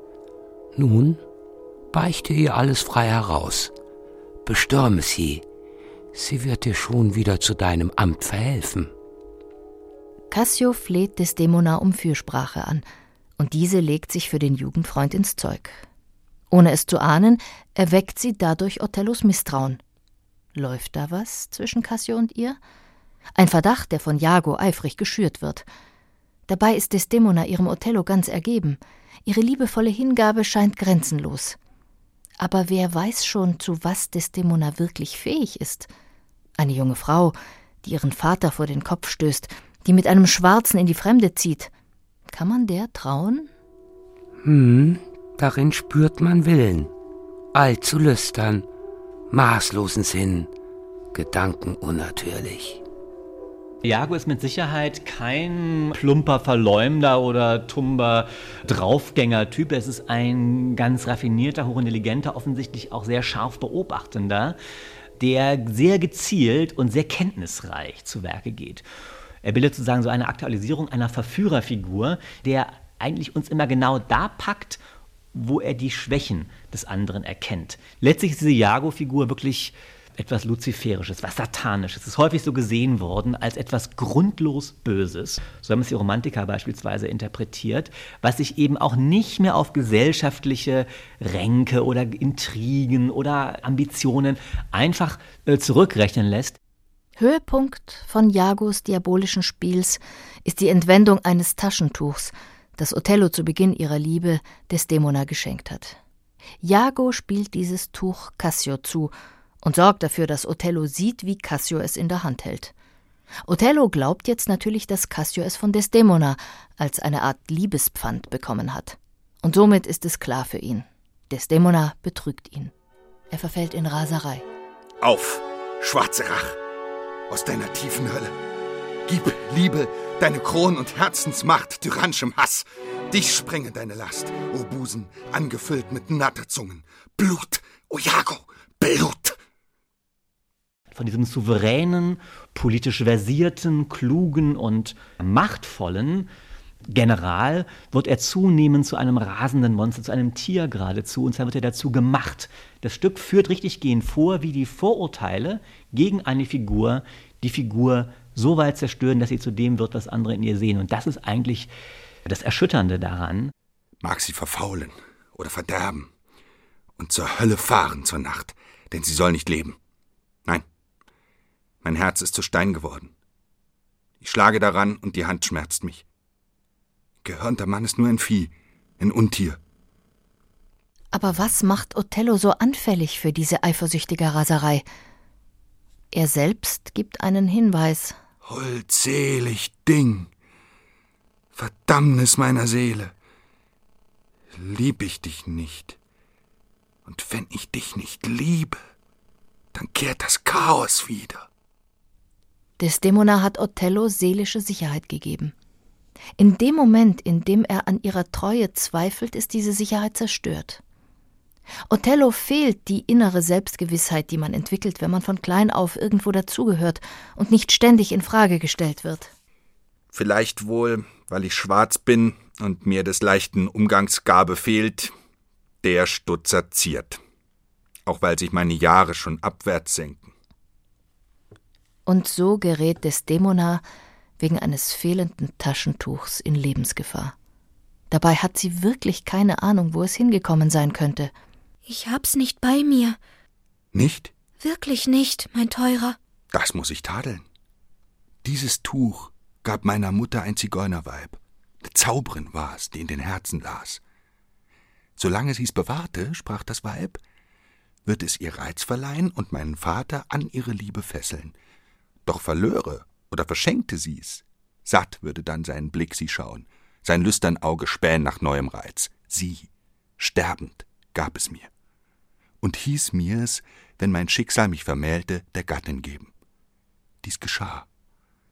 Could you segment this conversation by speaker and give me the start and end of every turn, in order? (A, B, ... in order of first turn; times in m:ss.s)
0:00.8-0:01.2 A
0:01.9-0:03.7 A
0:04.4-0:05.4 A
0:06.1-0:08.9 A
0:10.3-0:12.8 B
0:13.4-0:15.8 B
0:16.5-0:19.8 B
0:20.6-0:22.6 B
0:23.4-0:25.7 B
0:26.5-0:31.6 B
0:32.4-0:35.9 B
0:36.6-0:41.7 B
0:42.3-0:43.5 B
0:44.4-0:46.9 A
0:47.5-0:48.7 A
0:49.3-0:50.5 A
0:51.1-0:52.8 A
0:53.8-1:04.6 C
1:05.2-1:08.8 C
1:09.4-1:14.8 C
1:15.3-1:36.6 C
1:37.2-1:46.0 B
1:46.6-1:52.7 B
1:53.4-2:02.7 B
2:03.3-2:04.4 B
2:05.0-2:06.6 D
2:07.3-2:08.3 D
2:09.1-2:19.4 D
2:20.9-2:26.3 C
2:26.9-2:41.7 C
2:42.3-2:43.5 C
2:44.0-2:46.1 D
2:47.0-2:49.8 D
2:51.8-2:53.1 D
2:54.2-2:56.0 D
2:57.2-2:59.6 D
3:01.1-3:04.8 B
3:06.1-3:08.2 B
3:08.4-3:10.3 D
3:11.5-3:13.1 D
3:14.5-3:16.0 D
3:17.1-3:18.8 D
3:19.7-3:21.5 D
3:22.8-3:25.5 B
3:26.4-3:30.8 B
3:31.9-3:39.3 B
3:40.1-3:45.1 D
3:45.8-3:47.2 D
3:48.1-3:50.3 D
3:52.1-3:53.8 B
3:54.4-3:57.3 B
3:58.1-4:01.3 B
4:01.9-4:03.2 E
4:03.9-4:04.3 D
4:04.6-4:06.2 E
4:06.5-4:07.4 D
4:08.4-4:14.0 D
4:15.2-4:17.2 D
4:18.0-4:21.6 D
4:22.3-4:31.7 D
4:32.6-4:36.3 D
4:37.2-4:37.9 D